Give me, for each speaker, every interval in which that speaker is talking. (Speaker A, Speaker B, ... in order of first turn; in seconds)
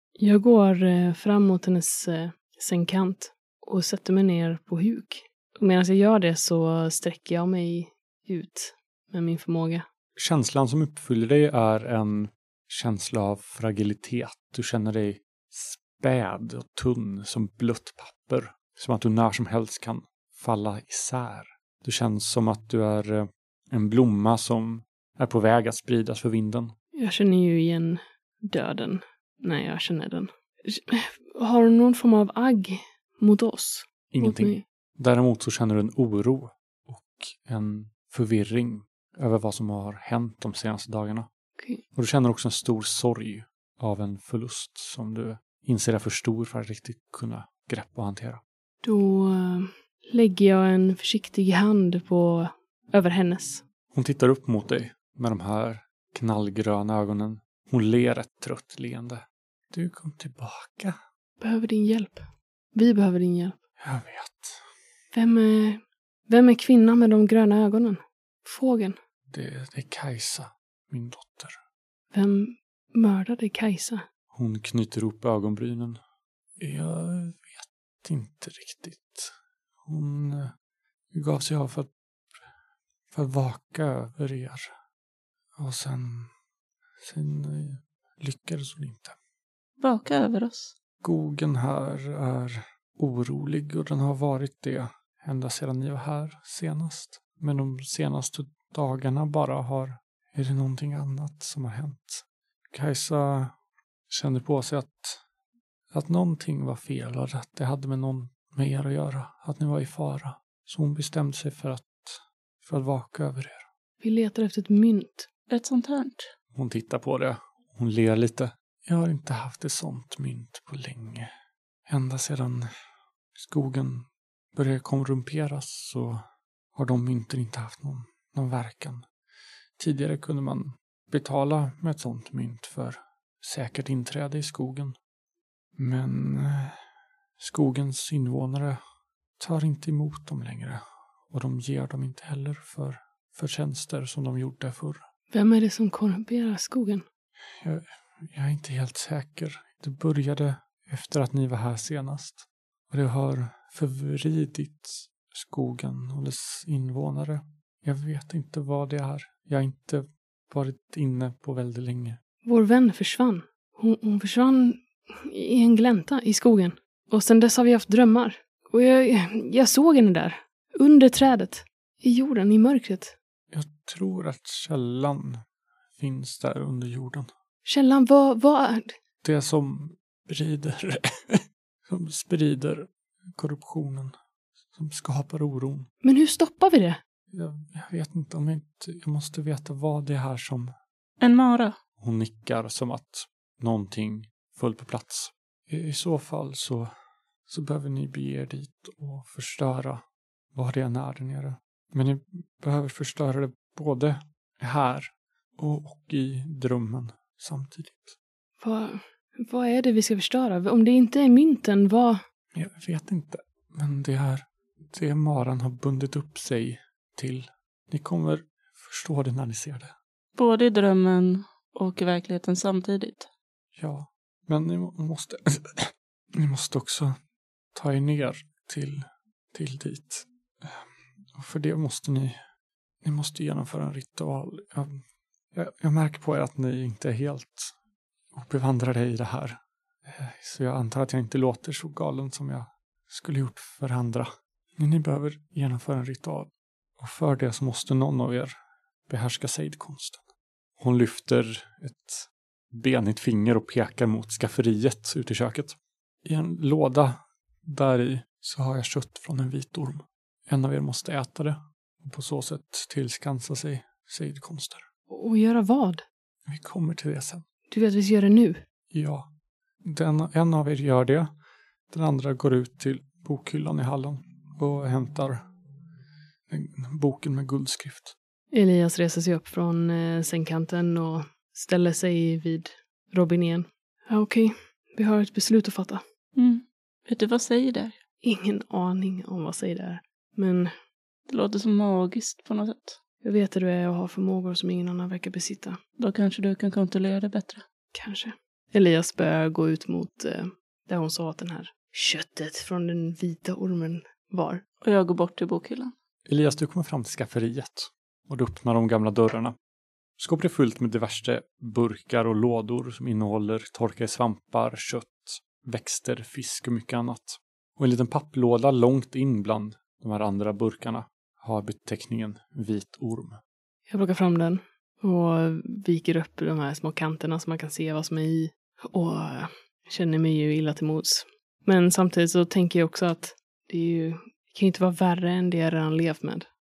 Speaker A: 0.2-9.8, 27.0-34.6, 48.8-53.6, 61.4-63.6, 65.1-69.0, 72.1-74.0, 114.0-115.3, 145.3-147.0, 162.4-173.2, 177.7-178.9, 186.0-187.0, 208.6-212.2, 265.1-266.0, 267.7-268.6, 278.5-286.0, 288.2-290.7, 293.2-295.8, 297.9-304.6, 323.9-336.5
Speaker B: 10.2-26.7, 34.1-41.3, 41.9-48.4, 53.9-61.0, 63.8-64.7, 69.3-71.6, 74.3-76.0, 76.6-79.3, 79.9-80.5, 81.1-81.9, 83.1-84.7, 85.6-86.3, 87.0-89.2, 91.0-103.5, 104.1-105.2, 105.9-113.7, 116.5-121.3, 121.9-122.7, 123.3-126.2, 126.8-129.1, 129.8-135.0, 135.8-136.8, 137.4-138.8, 139.4-145.0, 147.6-162.2, 173.5-175.4, 176.0-177.3, 179.2-184.2, 184.7-185.9, 187.3-190.8, 192.0-196.9, 197.5-200.0, 200.5-208.2, 212.6-219.9, 223.8-227.2, 227.7-232.4, 233.0-235.0, 235.5-237.8, 238.3-248.6, 249.1-250.2, 250.8-264.9, 266.5-267.4, 268.9-269.3, 269.8-271.3, 271.9-275.4, 276.5-278.1, 306.3-309.6, 310.2-323.4
Speaker C: 89.8-90.7, 115.5-116.3, 191.2-191.8, 220.3-223.3, 286.4-287.9, 291.3-293.0, 296.0-297.6, 304.8-305.9